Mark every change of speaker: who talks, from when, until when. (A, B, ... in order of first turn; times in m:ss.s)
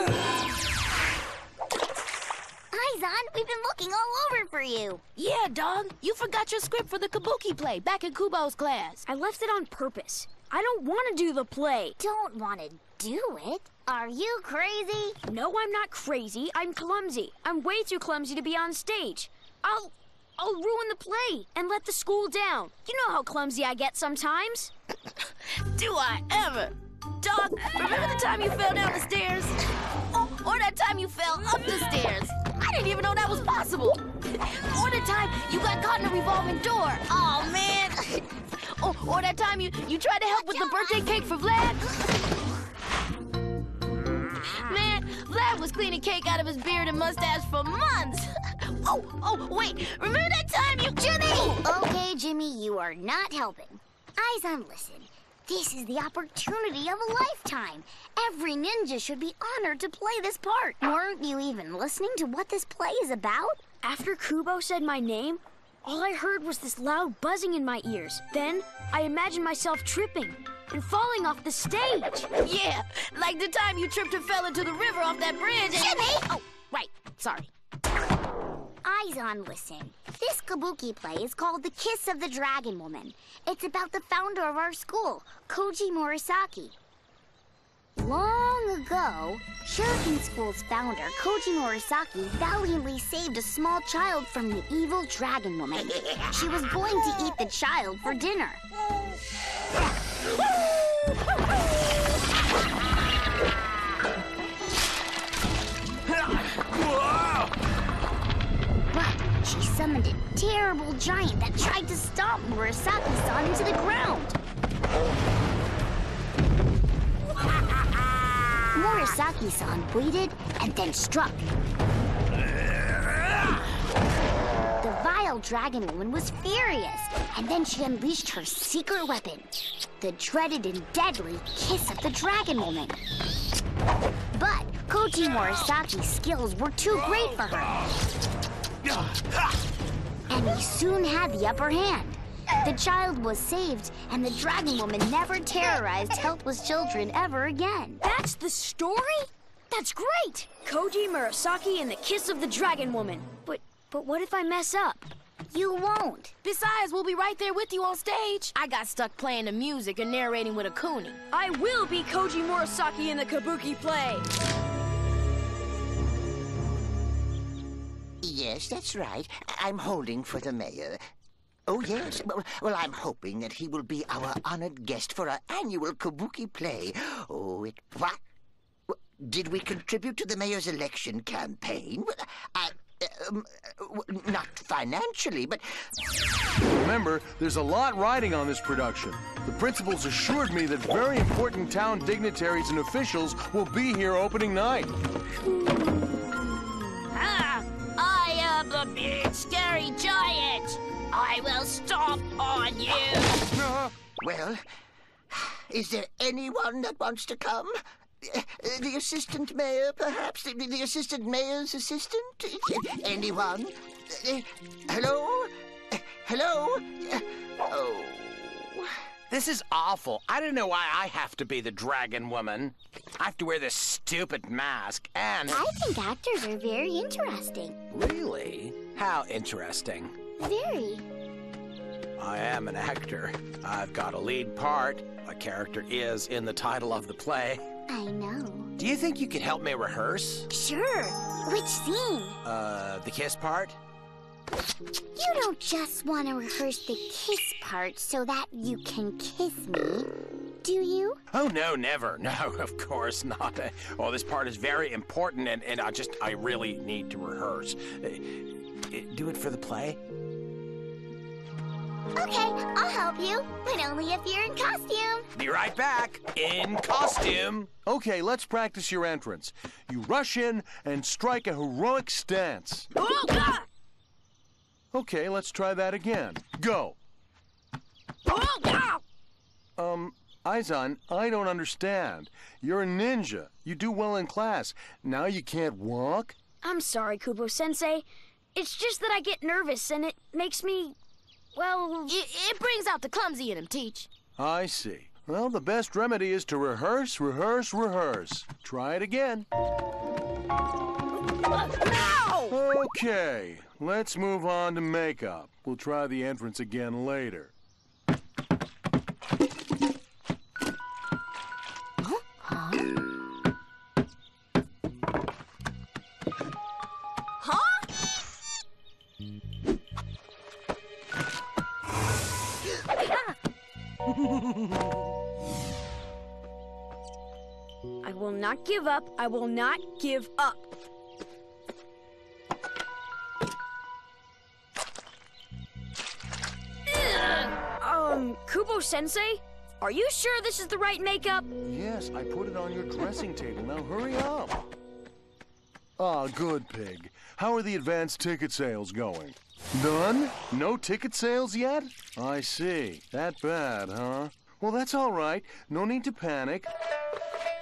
0:02.7-0:05.0 A
0:05.2-0:09.0 B
0:09.0-0:12.0 C
0:12.0-0:15.2 A
0:15.2-0:24.7 C
0:25.7-0:29.6 B
0:30.1-0:38.2 B
0:38.8-0:41.9 B
0:44.4-0:51.6 B
0:51.6-1:03.6 A
1:03.8-1:12.3 C
1:12.4-1:17.5 B
1:15.7-1:16.4 A
1:18.8-1:26.8 A
1:28.0-1:38.6 A
1:48.9-1:54.4 A
1:58.7-2:01.6 A
2:04.8-2:13.0 A
2:14.3-2:17.8 A
2:20.3-2:28.0 A
2:28.0-2:35.0 C
2:35.5-2:36.3 A
2:36.4-2:41.2 B
2:41.3-2:44.2 C
2:48.2-2:51.0 D
2:51.7-2:58.2 D
2:58.9-3:05.6 D
3:06.6-3:14.9 E
3:15.5-3:16.2 B
3:17.1-3:23.5 B
3:24.2-3:24.6 D
3:25.3-3:39.0 D
3:39.3-3:45.6 F
3:45.5-3:47.8 A
3:47.9-3:50.1 F
3:50.4-3:51.0 A
3:52.2-3:57.6 F
3:57.9-3:58.7 A
3:58.8-4:00.5 F
4:00.5-4:02.4 A
4:02.4-4:03.8 F
4:05.1-4:10.1 A
4:10.6-4:11.2 A
4:11.3-4:20.0 F
4:22.2-4:25.3 A
4:25.3-4:27.7 F
4:27.6-4:32.9 E
4:33.0-4:33.6 B
4:34.9-4:37.0 E
4:38.3-4:39.0 B
4:39.8-4:46.4 E
4:46.6-4:51.0 C
4:51.6-4:52.0 C
4:52.0-4:54.1 B
4:54.4-4:59.5 E
5:01.6-5:02.5 B
5:02.5-5:07.5 E
5:28.0-5:30.6 C
5:37.6-5:41.5 C
5:41.6-5:44.6 E
5:46.0-5:56.7 E